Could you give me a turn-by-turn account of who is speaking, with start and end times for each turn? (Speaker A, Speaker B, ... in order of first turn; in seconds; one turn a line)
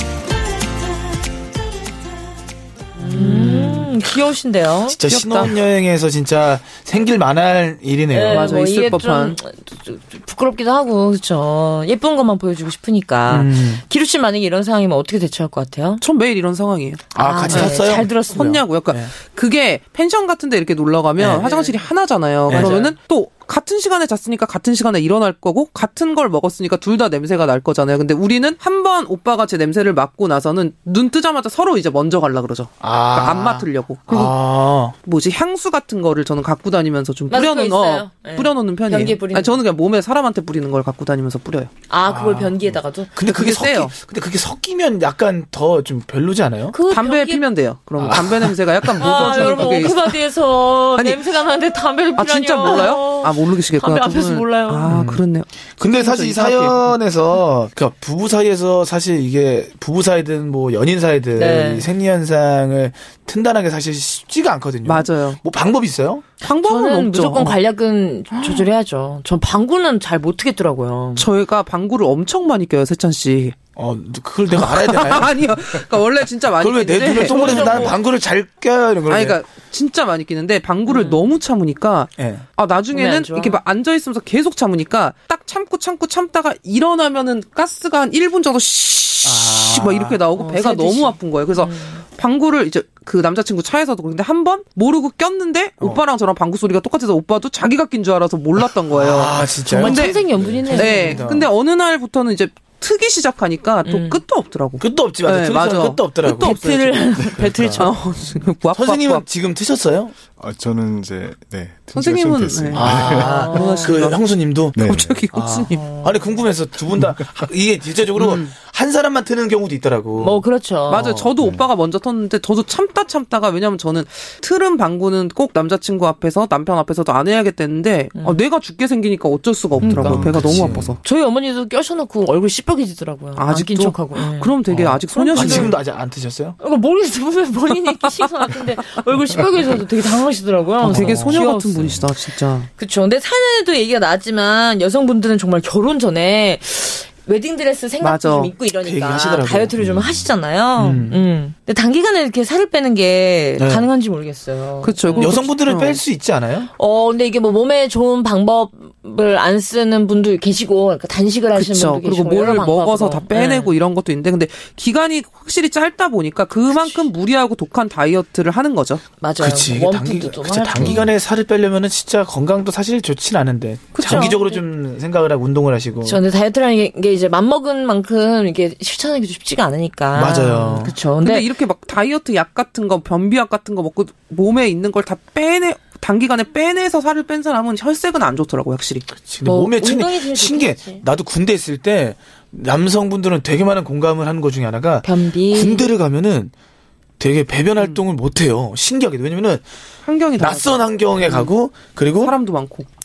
Speaker A: 3.0-3.9
Speaker B: 3.0-5.0
Speaker C: 4.9-8.5
Speaker A: 5.1-5.6
Speaker B: 8.1-16.0
Speaker A: 8.3-9.4
Speaker C: 13.3-13.8
Speaker A: 16.0-41.7
Speaker C: 17.1-18.1
Speaker B: 17.1-18.6
Speaker C: 21.2-21.4
Speaker B: 21.4-21.7
Speaker C: 22.5-22.9
Speaker B: 22.5-22.9
Speaker C: 32.8-34.9
Speaker B: 37.3-39.6
Speaker B: 41.9-43.1
Speaker C: 42.0-46.8
Speaker A: 43.2-43.9
Speaker B: 46.7-47.5
Speaker A: 46.9-50.2
Speaker C: 48.0-49.9
Speaker B: 49.0-54.9
Speaker A: 51.0-51.2
Speaker A: 52.1-56.9
Speaker C: 54.9-55.2
Speaker C: 55.8-66.3
Speaker B: 61.4-61.9
Speaker A: 64.8-65.4
Speaker A: 66.4-67.6
Speaker B: 66.4-71.3
Speaker A: 71.2-73.6
Speaker C: 73.8-75.5
Speaker A: 74.5-78.0
Speaker C: 76.5-79.4
Speaker B: 77.2-77.9
Speaker A: 79.1-106.7
Speaker B: 80.9-81.3
Speaker C: 82.2-82.4
Speaker B: 82.9-83.6
Speaker C: 89.2-90.2
Speaker B: 90.3-92.0
Speaker C: 98.6-101.5
Speaker B: 99.6-101.2
Speaker D: 100.3-100.8
Speaker B: 103.8-104.2
Speaker C: 104.8-107.9
Speaker B: 106.2-108.4
Speaker D: 107.2-107.8
Speaker A: 107.7-109.2
Speaker C: 108.7-110.1
Speaker D: 110.4-113.4
Speaker A: 111.9-115.9
Speaker C: 112.7-114.8
Speaker B: 113.0-113.9
Speaker D: 114.7-115.2
Speaker C: 115.3-121.3
Speaker A: 118.1-118.5
Speaker B: 120.2-121.1
Speaker A: 120.9-131.0
Speaker D: 121.4-121.7
Speaker B: 128.1-128.4
Speaker D: 129.7-130.9
Speaker B: 129.8-130.3
Speaker C: 130.4-130.9
Speaker B: 131.0-134.6
Speaker A: 133.3-135.8
Speaker C: 134.7-136.6
Speaker B: 135.1-135.8
Speaker B: 136.6-142.1
Speaker A: 140.8-142.7
Speaker C: 140.8-141.4
Speaker D: 141.8-142.1
Speaker B: 142.8-155.4
Speaker A: 148.0-148.5
Speaker C: 148.8-149.7
Speaker D: 149.8-150.3
Speaker C: 150.8-151.2
Speaker C: 153.6-153.9
Speaker A: 154.8-156.0
Speaker C: 155.2-156.7
Speaker B: 156.8-163.7
Speaker A: 161.5-169.0
Speaker B: 166.7-167.1
Speaker B: 169.2-171.0
Speaker C: 169.4-176.2
Speaker A: 173.9-174.5
Speaker B: 174.0-174.6
Speaker B: 176.0-181.5
Speaker C: 180.1-180.9
Speaker A: 181.1-189.1
Speaker C: 189.1-196.5
Speaker B: 189.4-191.0
Speaker B: 195.0-195.9
Speaker C: 197.2-199.6
Speaker A: 200.0-201.5
Speaker C: 200.4-202.3
Speaker A: 202.2-202.9